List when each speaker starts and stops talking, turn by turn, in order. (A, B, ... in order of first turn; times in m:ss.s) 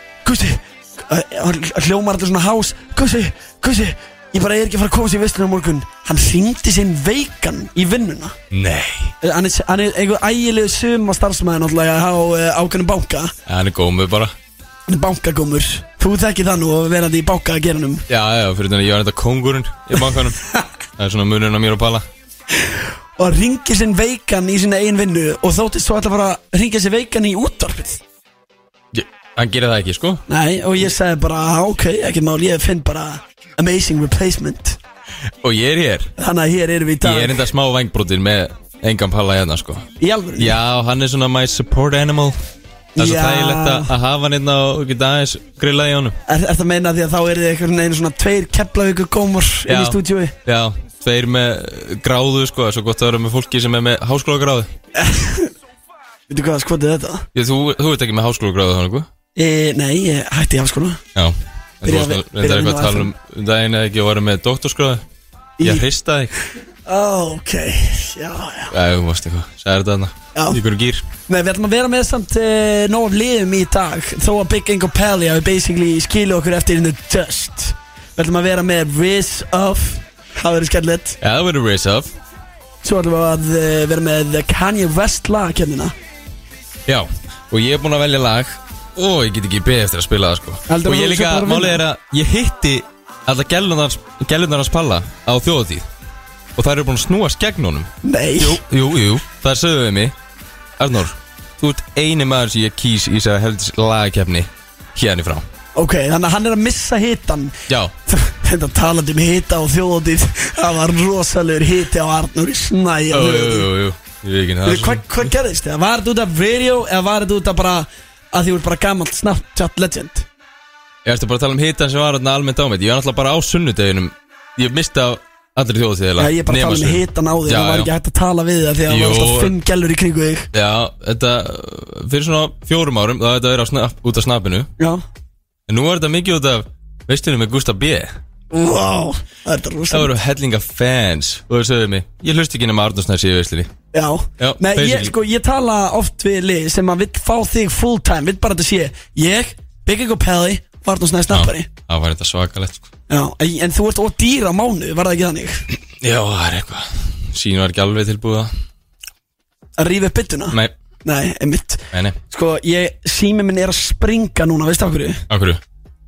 0:00.2-0:08.4 A
0:08.5-0:09.1 B
0:09.2-0:13.3 A
0:13.5-0:14.3 B
0:14.9-0:18.0 A
0:18.1-0:20.4 B
0:21.0-0:22.0 B
0:22.6-0:28.0 A
0:28.9-0:30.2 B
0:30.3-0:34.8 A
0:35.4-0:36.1 B
0:36.2-0:37.4 A
0:37.0-0:39.8 B
0:40.0-0:40.6 A
0:40.4-0:42.4 B
0:43.0-0:43.9 A
0:43.0-0:46.2 B
0:46.2-0:50.3 A
0:49.7-0:54.7 B
0:54.9-0:55.5 A
0:56.3-0:57.3 A
0:57.3-0:59.1 B
0:59.4-1:01.0 A
1:01.1-1:05.0 B
1:01.8-1:03.1 A
1:05.6-1:05.8 A
1:05.6-1:06.3 B
1:06.8-1:08.7 A
1:08.7-1:11.1 B
1:11.3-1:21.2 A
1:21.2-1:22.1 B
1:22.8-1:25.9 A
1:26.9-1:35.9 B
1:30.7-1:31.8 A
1:36.6-1:40.1 B
1:38.0-1:38.6 A
1:40.8-1:45.4 B
1:45.7-1:47.6 A
1:48.1-1:53.7 A
1:53.1-1:55.1 B
1:54.6-2:00.2 A
2:01.0-2:07.9 B
2:06.2-2:10.5 A
2:08.9-2:09.5 B
2:10.5-2:14.7 B
2:14.8-2:15.0 A
2:15.7-2:18.1 B
2:18.5-2:20.1 A
2:19.9-2:23.7 B
2:23.9-2:31.7 A
2:24.4-2:25.1 B
2:31.3-2:32.8 B
2:33.1-2:35.6 A
2:36.0-2:38.5 B
2:39.8-2:45.2 A
2:45.3-2:45.6 B